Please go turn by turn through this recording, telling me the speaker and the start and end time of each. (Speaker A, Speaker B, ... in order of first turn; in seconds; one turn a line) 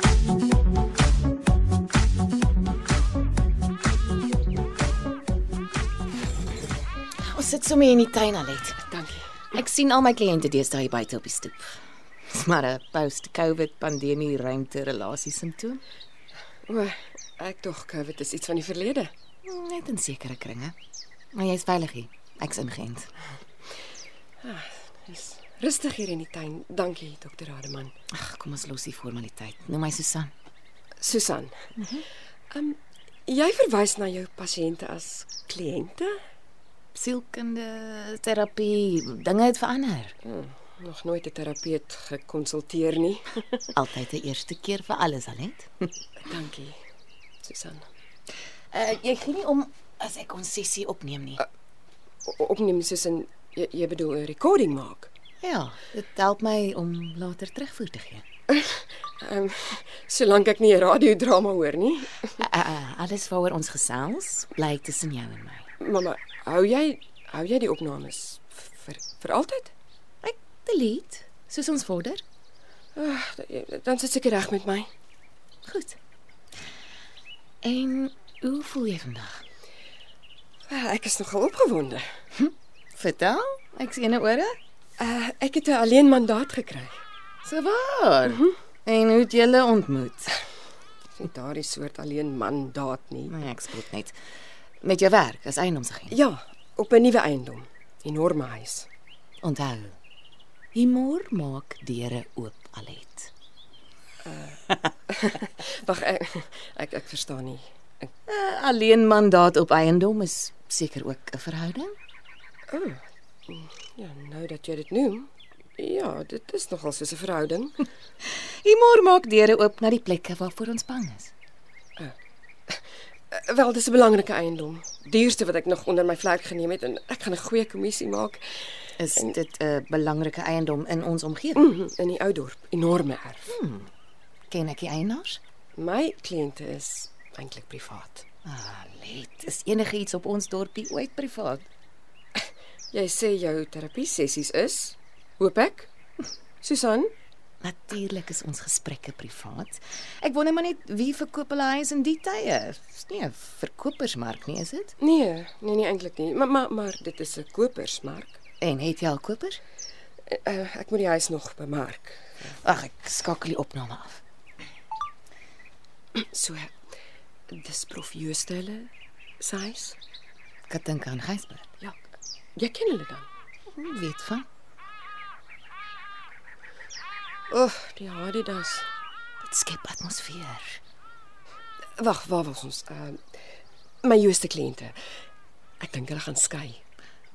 Speaker A: 7.3-8.8
Speaker B: 8.9-9.4
Speaker A: 9.5-15.8
Speaker B: 16.7-19.1
Speaker A: 19.4-20.8
Speaker A: 21.3-23.1
Speaker B: 24.4-27.9
Speaker A: 28.1-30.3
Speaker B: 31.0-31.6
Speaker A: 31.8-32.0
Speaker B: 32.5-36.1
Speaker A: 37.0-40.2
Speaker B: 40.2-43.6
Speaker A: 43.8-45.9
Speaker B: 46.2-46.8
Speaker B: 47.4-47.9
Speaker A: 48.7-51.4
Speaker B: 52.2-55.1
Speaker A: 55.4-58.2
Speaker B: 58.5-62.4
Speaker A: 62.4-65.7
Speaker B: 65.8-69.7
Speaker A: 70.2-72.2
Speaker B: 73.0-74.9
Speaker A: 75.7-76.0
Speaker A: 77.6-79.4
Speaker B: 80.7-82.1
Speaker A: 82.4-84.6
Speaker B: 85.0-87.0
Speaker A: 87.5-90.4
Speaker B: 91.2-93.3
Speaker A: 93.3-94.2
Speaker A: 94.8-96.2
Speaker B: 96.1-98.9
Speaker A: 99.4-100.0
Speaker A: 100.7-103.3
Speaker B: 104.2-108.1
Speaker A: 108.3-112.0
Speaker B: 112.7-117.8
Speaker A: 118.4-121.3
Speaker B: 122.7-128.4
Speaker A: 129.0-131.8
Speaker B: 131.6-133.5
Speaker A: 133.5-133.9
Speaker A: 134.5-135.4
Speaker B: 135.8-138.2
Speaker A: 138.4-141.7
Speaker B: 142.4-145.9
Speaker B: 146.6-147.1
Speaker A: 147.6-154.9
Speaker B: 155.0-158.4
Speaker A: 158.6-159.6
Speaker B: 160.3-162.5
Speaker A: 162.6-164.2
Speaker B: 166.2-166.7
Speaker B: 167.5-170.0
Speaker A: 170.7-171.7
Speaker B: 172.6-173.3
Speaker A: 173.7-174.5
Speaker B: 177.5-178.9
Speaker A: 179.4-180.8
Speaker B: 182.0-183.2
Speaker B: 184.0-184.9
Speaker B: 185.8-186.8